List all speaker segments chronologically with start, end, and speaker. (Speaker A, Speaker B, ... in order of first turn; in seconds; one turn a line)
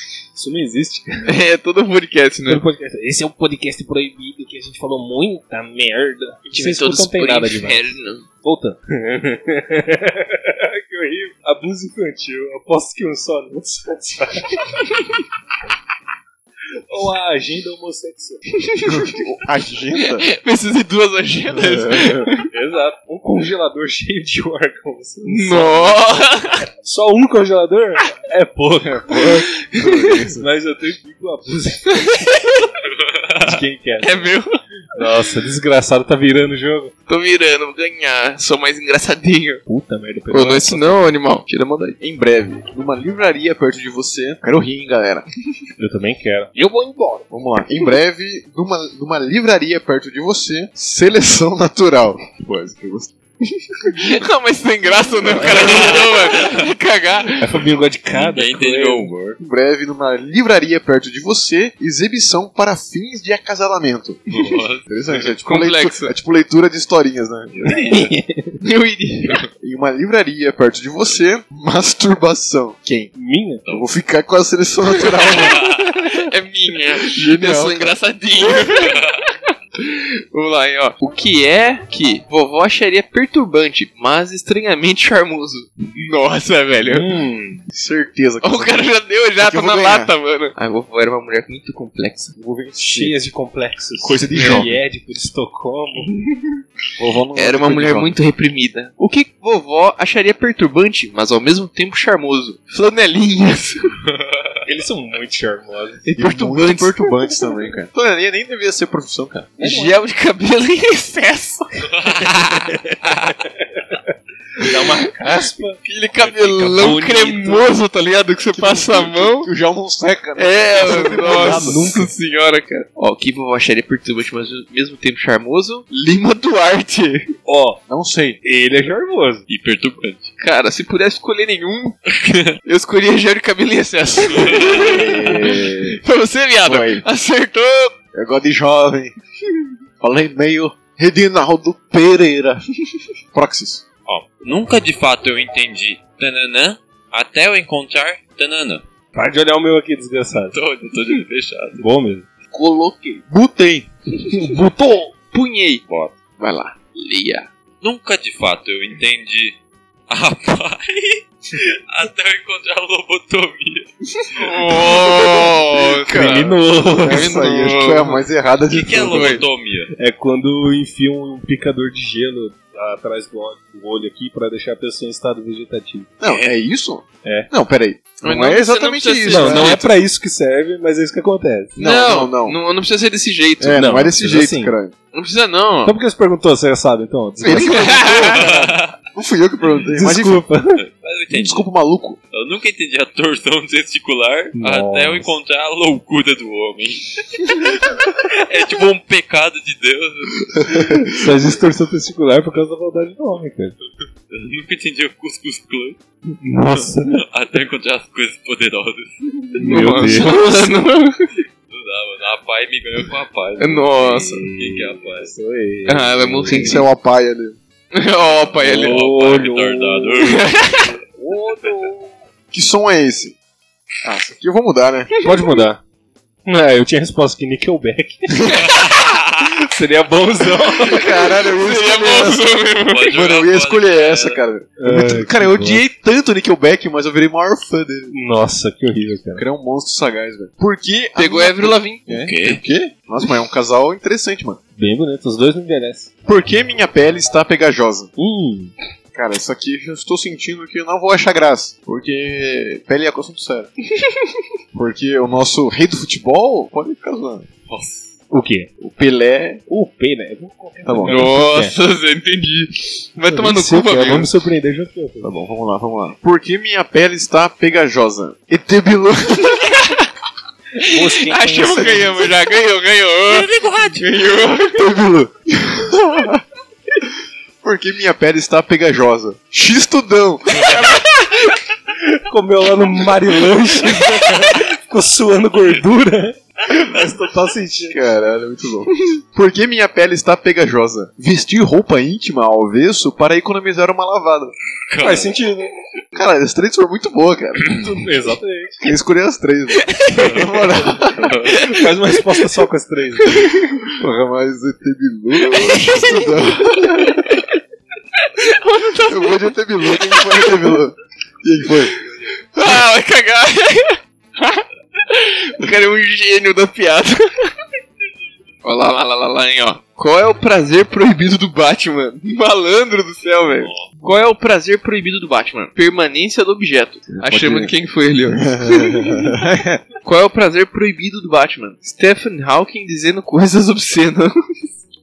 Speaker A: 0.3-1.3
Speaker B: 1.2-2.6
Speaker A: 2.5-14.7
Speaker B: 6.5-8.3
Speaker A: 16.9-18.4
Speaker B: 18.6-19.1
Speaker C: 18.9-20.3
Speaker B: 20.0-22.5
Speaker C: 21.6-22.3
Speaker A: 22.4-26.0
Speaker B: 25.2-26.6
Speaker A: 26.6-29.4
Speaker C: 28.8-30.5
Speaker A: 30.3-32.4
Speaker B: 31.9-32.5
Speaker D: 32.8-33.6
Speaker A: 33.4-34.3
Speaker B: 34.0-34.6
Speaker A: 34.9-36.9
Speaker B: 37.1-39.6
Speaker A: 39.6-41.1
Speaker B: 40.3-42.0
Speaker C: 42.0-45.2
Speaker A: 45.8-47.3
Speaker C: 47.3-53.1
Speaker B: 53.8-57.6
Speaker D: 55.4-56.7
Speaker A: 57.4-59.1
Speaker D: 58.1-59.4
Speaker C: 59.4-64.3
Speaker D: 64.3-64.9
Speaker C: 64.8-67.6
Speaker B: 65.4-66.1
Speaker D: 67.5-68.1
Speaker A: 67.7-68.6
Speaker B: 68.6-69.5
Speaker C: 69.6-73.1
Speaker A: 73.1-73.6
Speaker C: 73.7-75.7
Speaker B: 74.9-79.0
Speaker D: 75.3-75.9
Speaker C: 77.0-77.9
Speaker D: 78.8-79.2
Speaker B: 79.8-87.1
Speaker A: 86.8-87.6
Speaker C: 87.7-88.9
Speaker B: 88.4-92.3
Speaker C: 89.4-90.1
Speaker C: 92.3-93.2
Speaker A: 92.9-96.1
Speaker C: 94.0-94.8
Speaker B: 94.3-94.7
Speaker C: 97.0-98.1
Speaker B: 97.3-103.9
Speaker D: 104.0-104.5
Speaker A: 104.7-106.1
Speaker B: 106.0-107.5
Speaker C: 106.2-109.6
Speaker A: 109.6-110.0
Speaker B: 109.6-111.8
Speaker D: 111.8-113.3
Speaker A: 112.3-115.8
Speaker B: 115.8-119.5
Speaker D: 116.1-117.0
Speaker A: 116.6-117.7
Speaker C: 118.5-121.9
Speaker B: 120.3-127.3
Speaker A: 120.8-122.1
Speaker A: 127.5-127.8
Speaker C: 127.9-128.4
Speaker A: 128.4-129.4
Speaker D: 129.5-130.3
Speaker B: 130.4-132.0
Speaker D: 132.1-132.6
Speaker B: 132.6-137.9
Speaker D: 134.2-135.2
Speaker C: 134.7-136.0
Speaker C: 136.6-137.0
Speaker C: 138.1-139.2
Speaker C: 140.0-142.6
Speaker C: 143.3-143.8
Speaker D: 144.1-148.8
Speaker A: 149.1-150.6
Speaker D: 150.5-151.9
Speaker A: 151.8-152.3
Speaker C: 152.5-153.9
Speaker B: 152.5-153.2
Speaker A: 154.3-155.1
Speaker B: 155.3-155.8
Speaker D: 155.9-156.1
Speaker B: 156.4-157.5
Speaker D: 157.8-159.6
Speaker D: 160.1-165.4
Speaker B: 164.3-168.2
Speaker C: 165.2-169.4
Speaker A: 166.1-167.4
Speaker D: 168.7-169.9
Speaker B: 169.1-169.4
Speaker A: 169.9-176.1
Speaker C: 176.2-179.8
Speaker D: 176.3-176.5
Speaker A: 177.2-177.5
Speaker B: 178.2-179.9
Speaker A: 179.3-181.8
Speaker C: 181.8-182.6
Speaker B: 181.8-183.8
Speaker C: 183.6-184.9
Speaker A: 183.7-184.8
Speaker B: 185.1-185.9
Speaker A: 185.8-188.1
Speaker C: 187.4-190.4
Speaker B: 187.6-188.5
Speaker D: 188.1-188.9
Speaker A: 189.9-190.8
Speaker D: 190.7-191.7
Speaker C: 191.3-192.2
Speaker D: 192.3-201.2
Speaker A: 194.5-195.3
Speaker A: 200.7-203.8
Speaker D: 204.3-206.0
Speaker A: 206.4-207.2
Speaker D: 206.7-210.1
Speaker A: 209.6-210.4
Speaker B: 209.6-211.3
Speaker D: 211.7-215.3
Speaker B: 213.6-214.4
Speaker A: 214.2-216.8
Speaker B: 215.8-216.8
Speaker C: 216.5-217.6
Speaker B: 217.9-219.0
Speaker D: 218.2-220.6
Speaker A: 218.6-220.4
Speaker B: 220.2-221.0
Speaker A: 221.2-222.1
Speaker C: 222.5-223.3
Speaker C: 224.0-225.1
Speaker A: 225.2-225.8
Speaker A: 226.4-228.6
Speaker D: 228.5-229.6
Speaker A: 229.4-231.1
Speaker C: 230.8-238.1
Speaker B: 231.1-233.2
Speaker D: 232.9-234.4
Speaker A: 234.8-235.8
Speaker A: 238.1-239.4
Speaker C: 239.3-244.6
Speaker B: 241.2-242.1
Speaker D: 242.1-242.6
Speaker A: 244.8-246.1
Speaker C: 246.2-248.1
Speaker A: 248.2-248.7
Speaker C: 249.1-253.7
Speaker C: 254.7-257.5
Speaker D: 257.7-258.1
Speaker A: 258.3-258.7
Speaker C: 258.8-259.6
Speaker A: 259.7-261.7
Speaker C: 260.8-261.5
Speaker B: 261.1-264.3
Speaker A: 263.2-265.3
Speaker C: 265.2-269.8
Speaker B: 269.5-270.1
Speaker A: 270.8-272.2
Speaker B: 270.8-274.8
Speaker D: 273.3-274.1
Speaker C: 274.7-276.4
Speaker C: 277.6-280.9
Speaker B: 280.6-281.6
Speaker A: 282.1-288.0
Speaker C: 287.9-294.5
Speaker D: 294.9-295.4
Speaker A: 295.0-295.7
Speaker C: 296.1-297.9
Speaker A: 297.8-298.9
Speaker C: 298.8-301.4
Speaker B: 299.9-300.4
Speaker D: 300.1-300.6
Speaker D: 301.1-301.6
Speaker B: 301.4-301.9
Speaker A: 301.6-303.4
Speaker B: 303.3-303.8
Speaker C: 303.9-307.2
Speaker B: 305.4-307.4
Speaker B: 308.4-310.8
Speaker C: 309.0-311.9
Speaker B: 312.5-317.5
Speaker B: 318.6-329.3
Speaker D: 323.5-323.9
Speaker C: 327.1-327.7
Speaker C: 328.3-329.8
Speaker B: 330.0-334.4